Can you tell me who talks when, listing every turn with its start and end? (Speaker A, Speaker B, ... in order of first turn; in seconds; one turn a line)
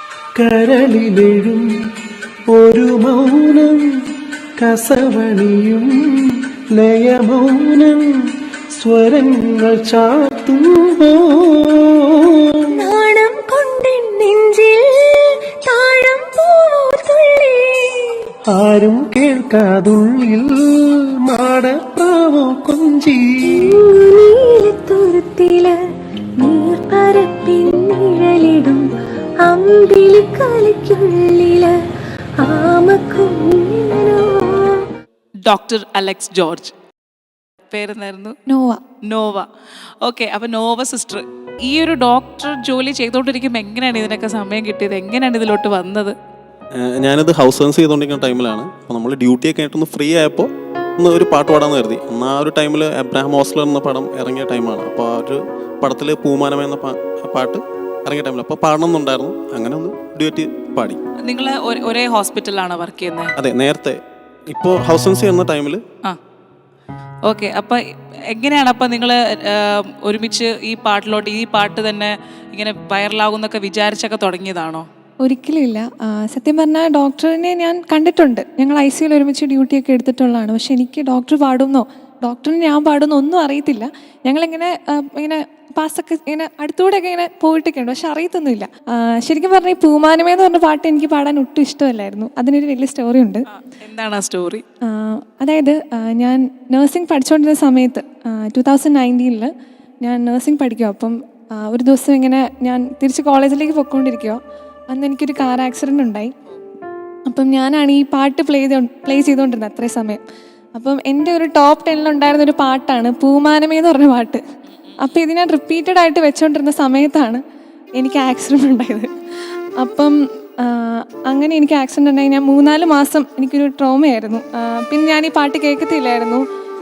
Speaker A: 0.4-1.7
Speaker A: 2.5-3.8
Speaker A: 4.6-5.9
Speaker A: 6.8-8.1
Speaker A: 8.7-12.9
Speaker B: 12.7-18.2
Speaker A: 18.5-23.8
Speaker B: 23.5-25.8
Speaker B: 26.4-28.9
Speaker B: 29.4-31.8
Speaker B: 32.4-34.9
Speaker C: 35.5-36.7
Speaker C: 37.7-38.4
Speaker D: 38.5-38.8
Speaker C: 39.0-39.5
Speaker C: 40.0-46.1
Speaker E: 46.8-61.0
Speaker C: 61.2-63.3
Speaker E: 63.4-65.8
Speaker C: 67.2-74.8
Speaker D: 75.2-93.5
Speaker C: 93.5-94.6
Speaker D: 94.8-99.5
Speaker D: 100.0-106.3
Speaker D: 107.3-110.2
Speaker D: 110.8-114.4
Speaker C: 114.7-115.1
Speaker D: 115.0-117.4
Speaker D: 118.0-119.1
Speaker D: 119.8-126.4